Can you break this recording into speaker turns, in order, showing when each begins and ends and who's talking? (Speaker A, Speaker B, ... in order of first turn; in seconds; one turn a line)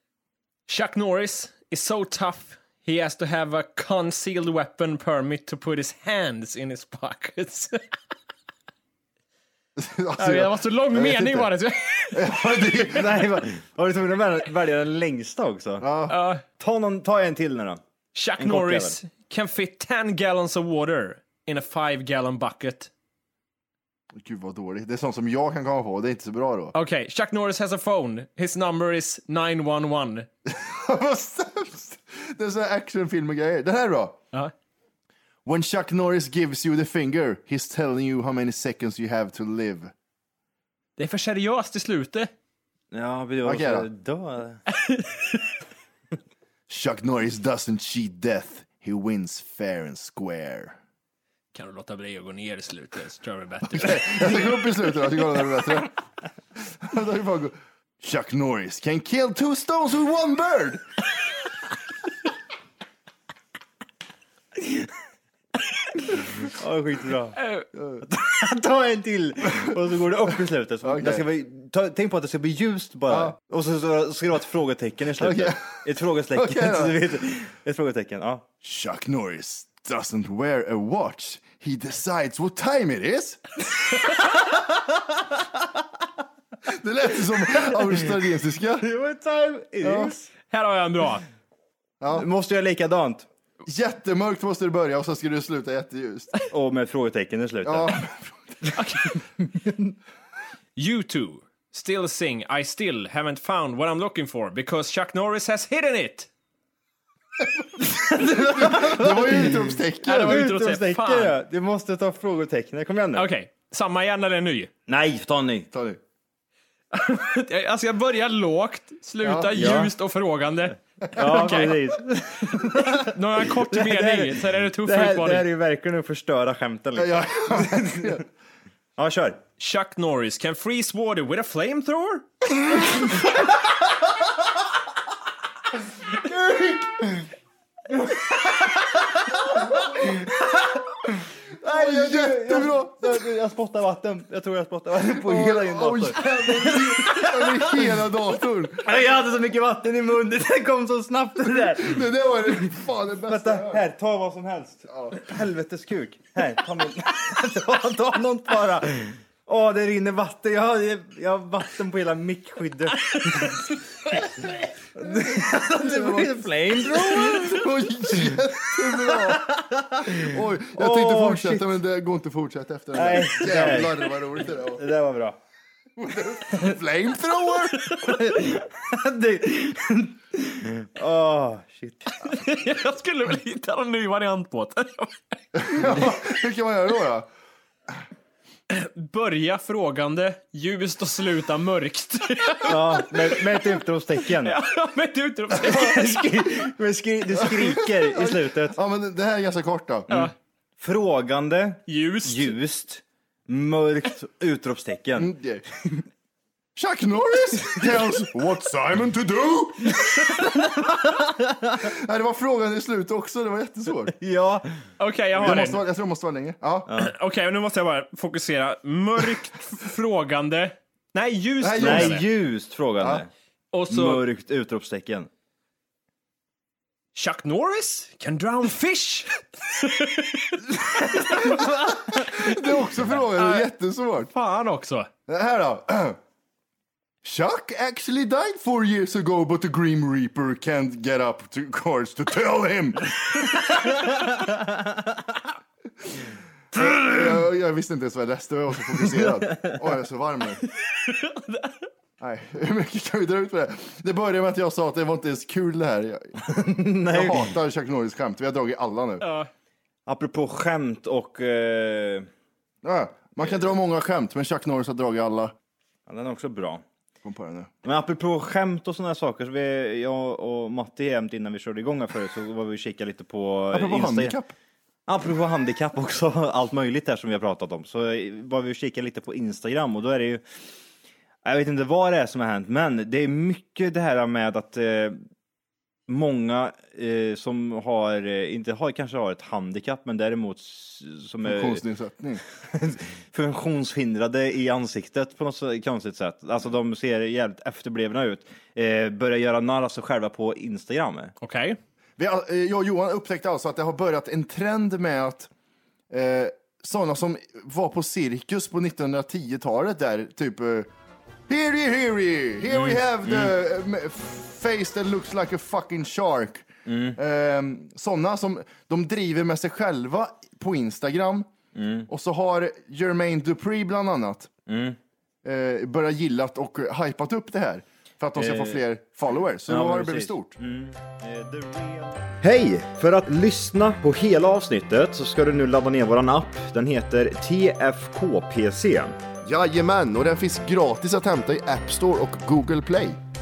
Speaker A: 0.7-7.8
Speaker B: 9.8-11.5
Speaker A: 10.2-12.3
Speaker B: 12.1-13.4
Speaker C: 12.6-15.8
Speaker B: 15.8-16.1
Speaker A: 16.1-16.4
Speaker C: 16.5-17.8
Speaker A: 18.1-22.9
Speaker C: 18.4-19.0
Speaker B: 24.1-26.7
Speaker A: 26.7-30.3
Speaker B: 30.4-34.2
Speaker B: 35.4-39.9
Speaker A: 41.0-42.3
Speaker C: 42.9-44.6
Speaker B: 43.4-43.9
Speaker A: 44.7-45.4
Speaker B: 46.7-50.8
Speaker A: 51.5-54.4
Speaker B: 53.7-56.0
Speaker B: 56.6-60.8
Speaker C: 66.2-67.4
Speaker A: 67.4-67.7
Speaker B: 67.8-68.0
Speaker C: 68.0-78.5
Speaker B: 70.8-71.2
Speaker B: 73.1-73.3
Speaker B: 75.2-77.0
Speaker B: 78.6-83.6
Speaker B: 86.7-88.8
Speaker C: 88.8-90.3
Speaker B: 89.8-90.2
Speaker A: 90.5-91.2
Speaker B: 92.0-92.3
Speaker C: 92.1-93.3
Speaker B: 93.7-96.3
Speaker C: 96.5-97.9
Speaker B: 97.6-98.7
Speaker A: 98.7-99.1
Speaker A: 100.8-106.3
Speaker C: 107.8-113.3
Speaker B: 108.0-110.4
Speaker A: 110.0-111.3
Speaker A: 113.1-114.7
Speaker C: 114.9-115.7
Speaker B: 115.7-116.0
Speaker A: 116.9-121.9
Speaker B: 119.2-119.5
Speaker C: 119.5-119.9
Speaker C: 121.1-128.2
Speaker A: 122.6-125.5
Speaker B: 127.0-128.2
Speaker C: 129.0-129.4
Speaker A: 129.6-132.2
Speaker C: 136.2-137.2
Speaker C: 137.9-140.9
Speaker C: 141.6-148.1
Speaker B: 141.6-143.1
Speaker B: 145.0-148.9
Speaker C: 148.8-152.6
Speaker B: 151.6-153.8
Speaker C: 153.3-171.7
Speaker B: 154.9-155.2
Speaker B: 165.1-174.9
Speaker C: 172.9-175.4
Speaker B: 176.0-178.1
Speaker C: 178.0-182.3
Speaker A: 182.2-185.2
Speaker B: 185.5-187.3
Speaker A: 188.7-193.4
Speaker C: 192.6-194.6
Speaker A: 194.4-196.1
Speaker C: 195.6-198.8
Speaker B: 197.4-200.3
Speaker C: 200.8-205.3
Speaker A: 201.9-202.6
Speaker B: 205.2-205.6
Speaker B: 206.8-210.9
Speaker C: 210.2-210.9
Speaker B: 211.8-214.1
Speaker C: 214.2-214.8
Speaker A: 215.0-215.8
Speaker B: 215.4-216.9
Speaker C: 216.8-217.1
Speaker A: 216.9-222.2
Speaker B: 221.6-222.2
Speaker C: 221.8-223.3
Speaker A: 223.7-224.2
Speaker C: 223.9-225.3
Speaker A: 227.1-233.7
Speaker B: 231.4-234.3
Speaker A: 234.3-235.1
Speaker B: 235.3-236.2
Speaker B: 237.2-244.3
Speaker B: 246.7-250.6
Speaker A: 250.9-251.8
Speaker B: 252.2-256.4
Speaker C: 256.5-257.5
Speaker B: 257.0-259.2
Speaker A: 259.2-259.5
Speaker C: 260.1-262.3
Speaker B: 262.8-265.5
Speaker C: 266.1-266.8
Speaker B: 267.2-267.7
Speaker C: 267.8-274.4
Speaker B: 273.7-274.5
Speaker C: 275.1-280.4
Speaker C: 281.4-285.2
Speaker C: 286.1-291.8
Speaker B: 291.4-292.4
Speaker C: 292.6-301.3
Speaker A: 301.4-301.8
Speaker B: 302.2-305.5
Speaker B: 306.1-310.9
Speaker B: 311.5-321.5
Speaker C: 312.7-313.5
Speaker C: 316.9-317.2
Speaker C: 321.7-322.1
Speaker B: 322.1-324.5
Speaker C: 324.7-325.0
Speaker B: 325.4-330.6
Speaker C: 328.4-328.8
Speaker C: 329.7-339.2
Speaker B: 339.4-343.2